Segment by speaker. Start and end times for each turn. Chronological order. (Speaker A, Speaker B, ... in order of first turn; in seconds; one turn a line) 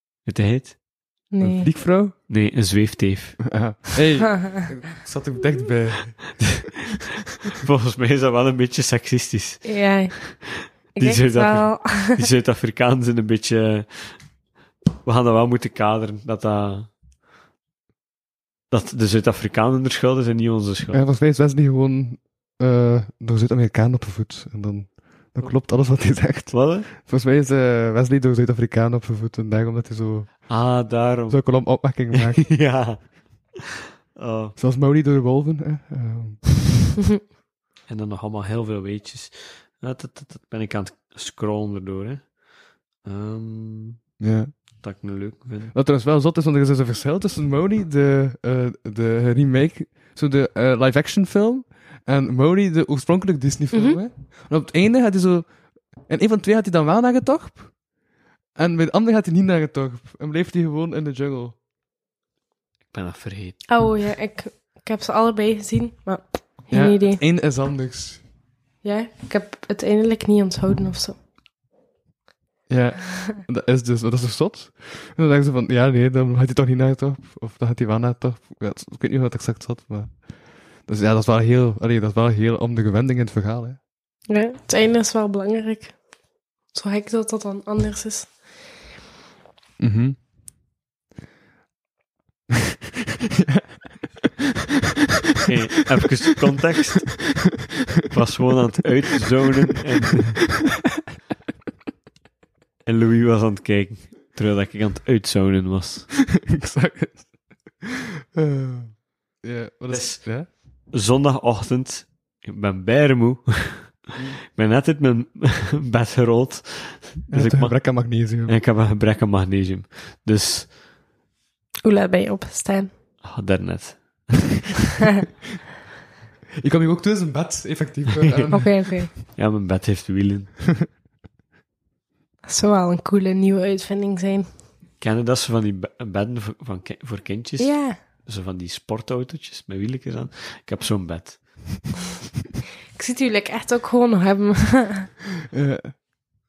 Speaker A: 0.2-0.8
Speaker B: 1.3-1.7
Speaker C: 1.4-2.1
Speaker A: 2.3-3.5
Speaker C: 3.5-6.7
Speaker A: 7.5-10.0
Speaker B: 9.6-12.3
Speaker A: 10.6-14.2
Speaker A: 15.0-16.9
Speaker A: 18.7-21.0
Speaker C: 20.9-32.9
Speaker A: 25.4-26.9
Speaker A: 30.5-33.5
Speaker A: 34.1-34.5
Speaker C: 34.5-36.5
Speaker A: 37.9-42.4
Speaker A: 43.0-44.1
Speaker C: 44.2-44.5
Speaker A: 44.6-45.7
Speaker C: 45.7-55.5
Speaker B: 53.7-54.0
Speaker C: 56.0-57.7
Speaker C: 58.5-61.5
Speaker A: 62.9-63.8
Speaker B: 63.7-67.2
Speaker C: 66.7-68.2
Speaker B: 68.8-71.2
Speaker C: 72.7-80.2
Speaker C: 80.8-83.8
Speaker B: 84.3-86.0
Speaker B: 86.7-88.4
Speaker C: 89.8-90.2
Speaker C: 93.3-93.6
Speaker A: 95.4-97.3
Speaker A: 98.1-100.5
Speaker A: 102.8-106.1
Speaker C: 106.5-110.5
Speaker A: 109.9-120.7
Speaker C: 117.3-118.5
Speaker B: 121.8-122.9
Speaker A: 123.2-124.4
Speaker C: 126.6-128.9
Speaker B: 128.5-129.1
Speaker A: 129.3-130.6
Speaker B: 132.4-134.5
Speaker A: 135.0-141.8
Speaker B: 137.6-138.0
Speaker B: 142.9-145.1
Speaker C: 145.5-146.0